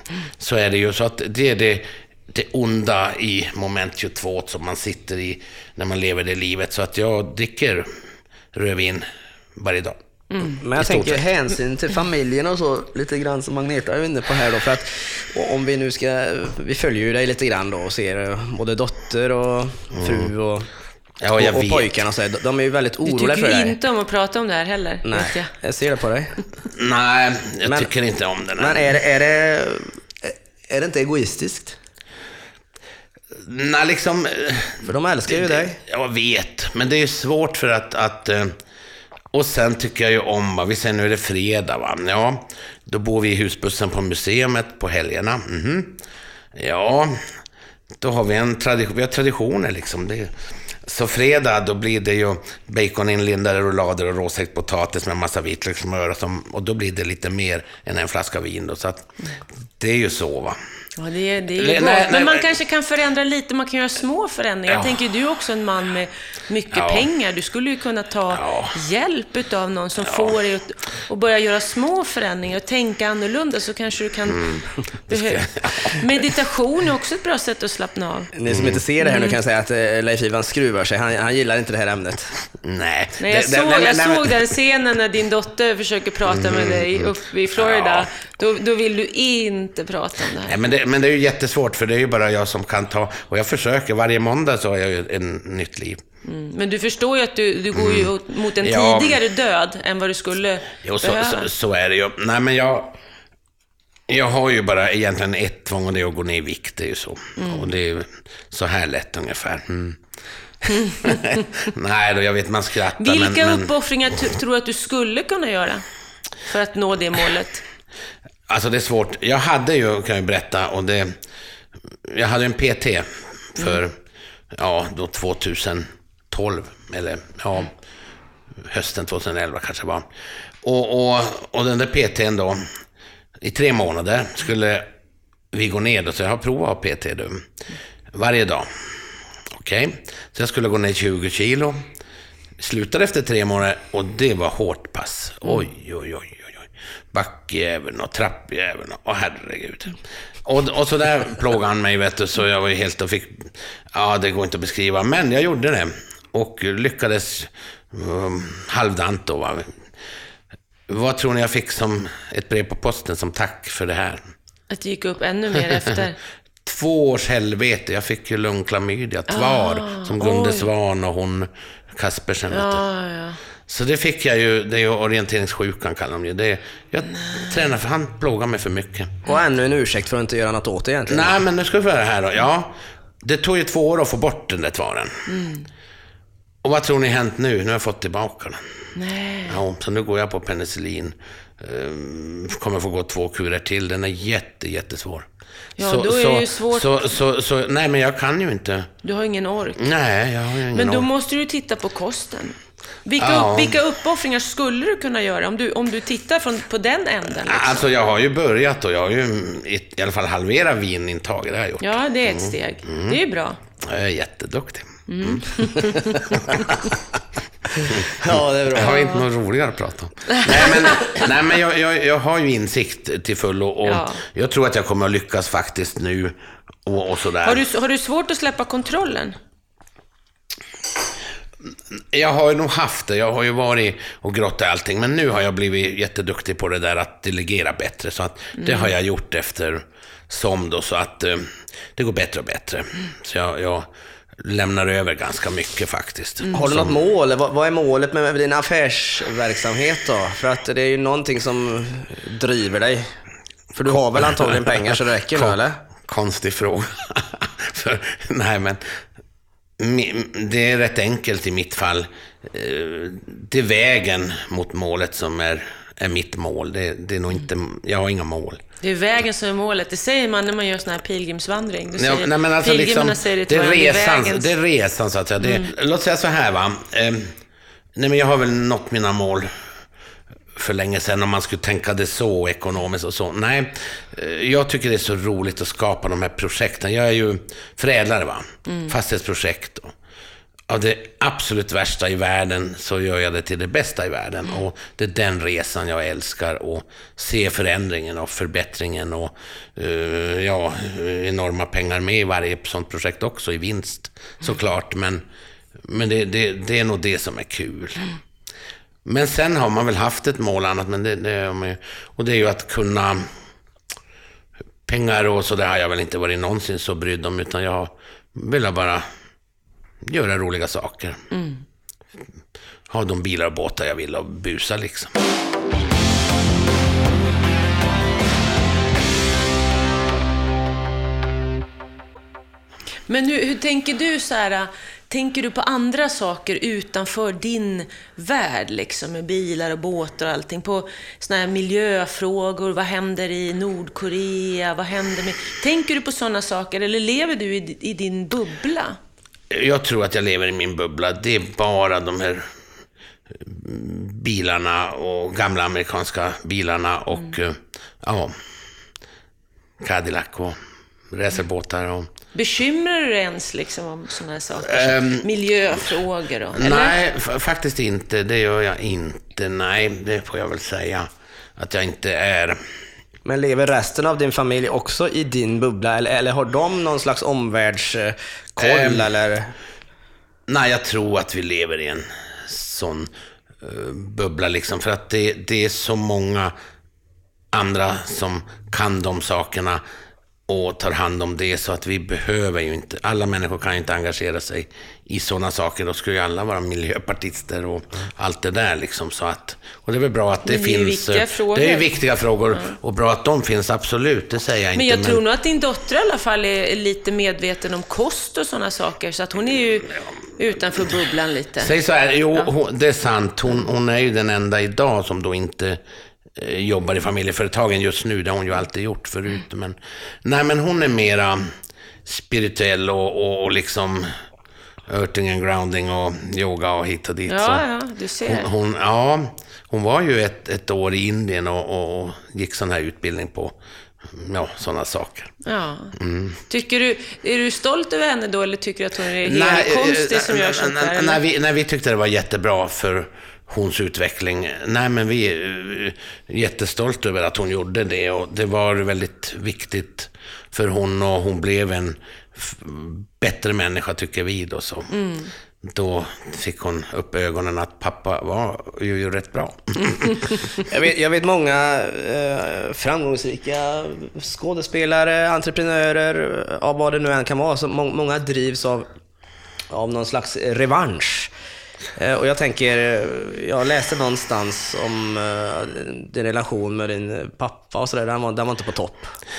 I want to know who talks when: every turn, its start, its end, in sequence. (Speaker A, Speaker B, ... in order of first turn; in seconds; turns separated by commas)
Speaker A: 0.4-7.9, Speaker A: 8.5-10.0, Speaker B: 10.3-10.6, Speaker C: 10.6-20.7, Speaker A: 10.8-11.2, Speaker A: 20.0-20.3, Speaker A: 21.2-22.0, Speaker C: 21.4-23.8, Speaker B: 23.1-25.5, Speaker C: 25.1-26.4, Speaker A: 26.7-28.9, Speaker C: 28.6-31.8, Speaker A: 33.4-38.5, Speaker C: 34.8-35.8, Speaker A: 39.3-46.0, Speaker A: 46.5-47.2, Speaker A: 48.0-50.3, Speaker A: 50.9-59.1, Speaker A: 59.8-60.6, Speaker B: 61.0-74.6, Speaker A: 61.6-62.5, Speaker A: 64.7-65.0, Speaker A: 66.7-67.1, Speaker A: 68.3-68.8, Speaker A: 70.1-70.3, Speaker A: 74.3-76.0, Speaker B: 75.1-78.3, Speaker C: 78.3-82.3, Speaker A: 78.5-78.8, Speaker B: 79.0-79.4, Speaker A: 82.6-84.4, Speaker B: 83.2-90.5, Speaker A: 86.3-88.1, Speaker A: 90.5-96.0, Speaker B: 96.3-101.5, Speaker A: 97.7-99.2, Speaker A: 100.8-103.0, Speaker A: 104.1-110.0, Speaker B: 107.4-107.7, Speaker A: 110.6-113.7, Speaker B: 113.0-115.8, Speaker B: 116.5-117.6, Speaker A: 118.5-121.2, Speaker A: 122.1-124.0, Speaker A: 124.5-127.7, Speaker A: 128.6-130.1, Speaker A: 130.6-132.7, Speaker A: 133.4-134.9, Speaker A: 135.5-137.5, Speaker A: 138.1-138.7, Speaker A: 139.5-141.8, Speaker A: 142.6-159.7, Speaker A: 160.9-164.3, Speaker B: 164.7-166.2, Speaker A: 166.6-172.8, Speaker B: 169.3-170.7, Speaker B: 172.5-173.4, Speaker A: 173.7-179.1, Speaker C: 179.3-181.4, Speaker A: 181.1-185.2, Speaker B: 185.3-185.7, Speaker A: 186.6-188.6, Speaker B: 188.9-189.6, Speaker A: 189.5-195.3, Speaker B: 195.8-197.1, Speaker A: 195.8-198.9, Speaker B: 199.0-199.8, Speaker A: 199.8-201.1, Speaker B: 200.7-207.9, Speaker A: 203.2-203.8, Speaker A: 207.4-213.2, Speaker B: 211.8-213.6, Speaker A: 213.8-216.8, Speaker B: 215.1-216.8, Speaker A: 217.8-226.3, Speaker C: 218.0-218.9, Speaker B: 218.8-219.2, Speaker B: 220.3-221.2, Speaker B: 223.8-224.2, Speaker A: 226.9-227.6, Speaker B: 227.4-229.4, Speaker A: 232.1-247.0, Speaker B: 238.6-238.9, Speaker B: 246.4-246.7, Speaker C: 246.5-253.1, Speaker C: 253.8-255.8, Speaker A: 254.2-254.6, Speaker A: 255.3-258.8, Speaker A: 259.8-268.6, Speaker B: 268.8-274.5, Speaker A: 271.9-277.3, Speaker B: 275.4-275.7, Speaker A: 278.0-279.5, Speaker A: 280.6-289.9, Speaker B: 288.7-288.9, Speaker A: 290.7-305.2, Speaker A: 305.9-308.1, Speaker A: 309.1-313.3, Speaker A: 314.9-319.1, Speaker A: 320.1-321.2, Speaker B: 321.3-321.6, Speaker A: 322.9-325.2, Speaker B: 333.1-349.0, Speaker A: 349.5-352.5, Speaker A: 353.4-358.3, Speaker A: 359.8-360.6, Speaker A: 361.1-362.1, Speaker B: 362.3-367.0, Speaker A: 364.6-365.2, Speaker A: 366.6-372.6, Speaker C: 373.2-379.5, Speaker A: 378.6-379.1, Speaker A: 380.5-383.1, Speaker A: 383.6-386.5, Speaker A: 387.5-389.8, Speaker A: 390.5-405.2, Speaker B: 400.4-401.9, Speaker B: 404.8-411.7, Speaker A: 411.6-415.8, Speaker A: 416.4-421.5, Speaker A: 422.1-424.1, Speaker A: 424.9-427.6, Speaker B: 427.3-428.5, Speaker A: 428.3-433.6, Speaker A: 434.1-435.3, Speaker B: 435.4-436.0, Speaker A: 436.0-436.4, Speaker B: 436.5-441.2, Speaker A: 439.2-455.0, Speaker B: 454.9-455.3, Speaker A: 455.6-460.3, Speaker C: 460.6-468.9, Speaker C: 469.7-471.3, Speaker C: 472.0-479.1